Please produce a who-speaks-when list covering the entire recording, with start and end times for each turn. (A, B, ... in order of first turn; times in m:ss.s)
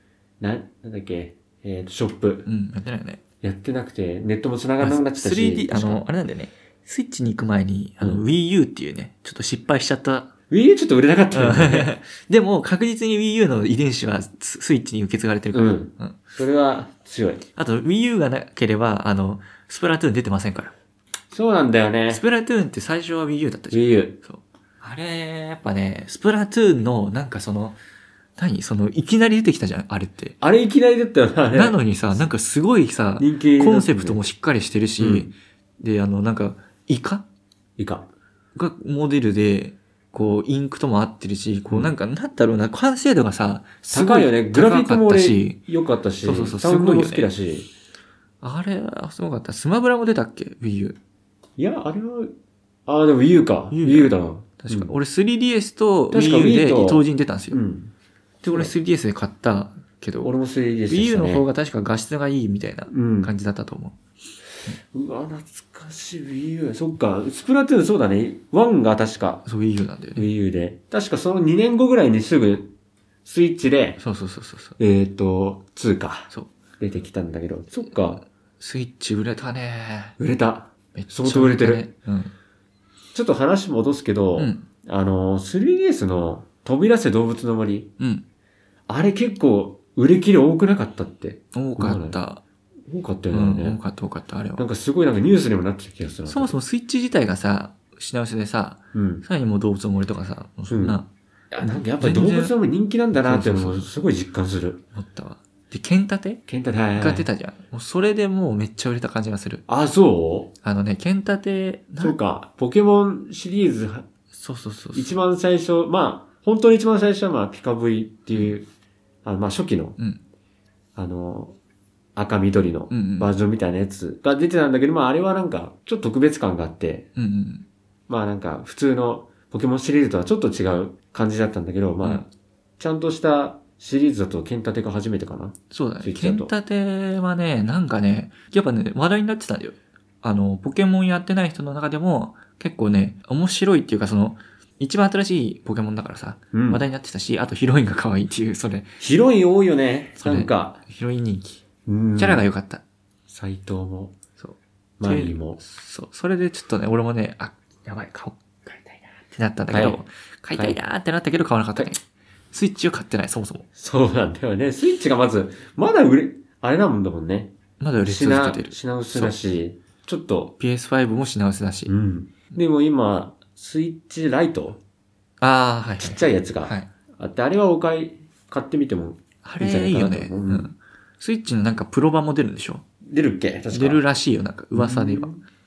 0:00.4-0:02.5 A
0:02.5-0:03.2 B
0:03.4-0:06.0 A
0:04.8-0:10.3 B
0:10.5-0:11.9 A
0:11.3-0:16.2 B
0:15.5-0:17.5 A
0:17.6-0:20.7 B
0:21.3-0:22.2 A
0:22.1-0:27.8 B
0:23.7-0:24.2 A
0:28.4-0:30.4 B
0:30.4-0:31.8 A
0:31.5-0:37.2 B
0:33.2-0:34.2 A
0:35.0-0:35.3 A
0:37.8-0:38.1 A
0:38.6-0:45.6 B
0:43.9-0:47.7 A
0:46.2-0:47.3 B
0:48.4-0:51.0 B
0:51.6-0:52.4 A
0:52.9-0:54.9 A
0:53.7-0:57.6 B
0:56.1-0:57.9 A
0:58.4-1:00.3 B
1:00.2-1:01.5 A
1:00.9-1:04.0 B
1:02.9-1:03.3 A
1:04.7-1:09.5 A
1:09.5-1:10.3 B
1:10.2-1:12.7 A
1:13.2-1:14.0 A
1:14.0-1:14.8 B
1:14.8-1:18.2 A
1:18.6-1:20.2 B
1:20.2-1:21.9 A
1:21.0-1:22.3 B
1:23.2-1:27.9 A
1:24.4-1:24.7 B
1:28.0-1:28.3 B
1:28.9-1:32.2 A
1:31.5-1:32.4 B
1:32.9-1:33.8 A
1:33.3-1:34.6 B
1:34.6-1:36.5 A
1:36.3-1:41.1 B
1:38.9-1:39.2 A
1:40.7-1:44.8 A
1:41.6-1:42.6 B
1:43.1-1:44.0 B
1:45.0-1:46.4 B
1:46.5-1:47.3 A
1:47.0-1:49.6 B
1:49.7-1:50.5 A
1:50.6-1:52.2 B
1:52.0-1:54.1 A
1:54.3-1:55.1 B
1:54.9-1:58.7 A
1:59.2-2:00.0 A
2:01.0-2:01.6 A
2:02.2-2:07.1 A
2:02.9-2:03.3 B
2:07.2-2:07.7 B
2:08.1-2:16.5 A
2:15.7-2:28.9 B
2:26.5-2:26.8 A
2:29.0-2:30.8 A
2:30.2-2:31.6 B
2:31.9-2:32.5 A
2:32.2-2:32.8 B
2:33.3-2:34.2 A
2:34.4-2:42.0 B
2:35.0-2:35.6 A
2:39.7-2:40.0 A
2:42.5-2:43.7 B
2:43.8-2:50.5 A
2:47.8-2:49.4 B
2:50.6-2:51.9 B
2:51.9-2:54.8 A
2:55.4-2:56.9 B
2:56.0-3:00.7 A
2:59.4-3:02.8 B
3:03.1-3:04.0 A
3:03.7-3:05.3 B
3:04.7-3:05.4 A